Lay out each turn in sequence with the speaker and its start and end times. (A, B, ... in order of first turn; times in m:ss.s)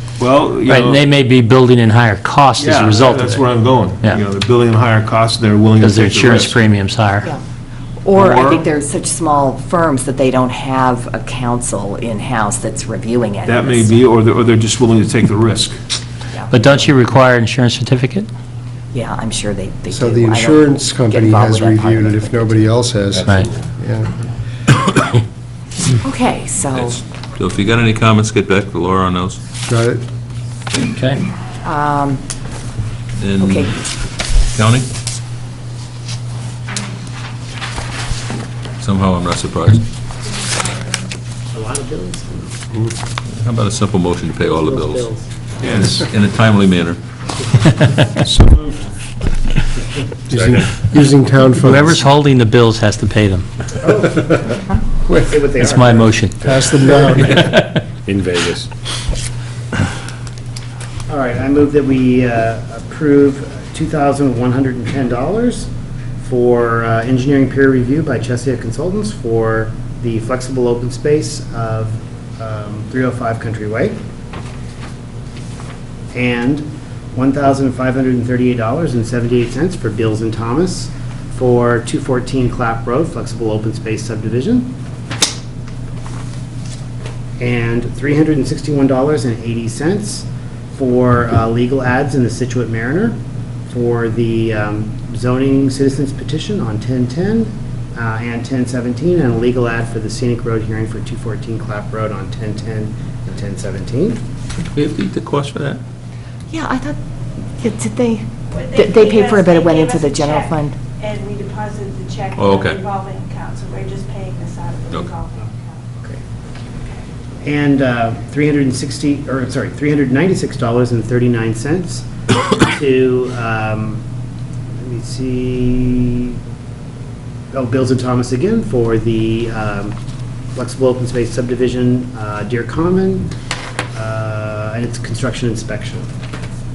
0:00.2-0:01.0 A
0:00.7-0:03.4 B
0:02.6-0:06.6 A
0:05.8-0:07.3 B
0:08.0-0:14.1 C
0:08.1-0:08.6 A
0:13.5-0:15.8 A
0:16.3-0:16.9 C
0:16.5-0:18.3 B
0:18.9-0:22.8 C
0:19.9-0:24.1 D
0:23.2-0:23.5 B
0:26.0-0:27.0 C
0:26.8-0:29.4 E
0:29.7-0:30.0 D
0:30.8-0:31.2 B
0:31.6-0:32.2 C
0:33.2-0:33.7 E
0:33.4-0:33.9 C
0:34.5-0:34.9 E
0:38.8-0:39.9 E
0:41.5-0:42.5 F
0:43.3-0:45.1 E
0:44.6-0:45.2 F
0:45.6-0:46.1 A
0:46.0-0:47.0 E
0:48.2-0:48.9 A
0:50.3-0:52.0 D
0:51.6-0:53.5 B
0:53.8-0:54.5 F
0:55.1-0:55.4 D
0:55.3-0:56.2 F
0:55.6-0:57.8 B
0:56.4-0:57.5 D
1:01.1-1:05.7 F
1:06.2-1:14.0 F
1:16.1-1:24.8 F
1:27.4-1:44.2 F
1:44.7-1:45.8 E
1:46.5-1:47.0 C
1:47.6-1:50.8 C
1:48.6-1:55.8 G
1:52.4-1:52.8 E
1:54.9-1:55.2 E
1:57.4-2:02.1 F
2:02.6-2:04.0 F
2:04.8-2:06.4 F
2:07.5-2:10.0 F
2:10.6-2:13.3 F
2:13.9-2:16.1 F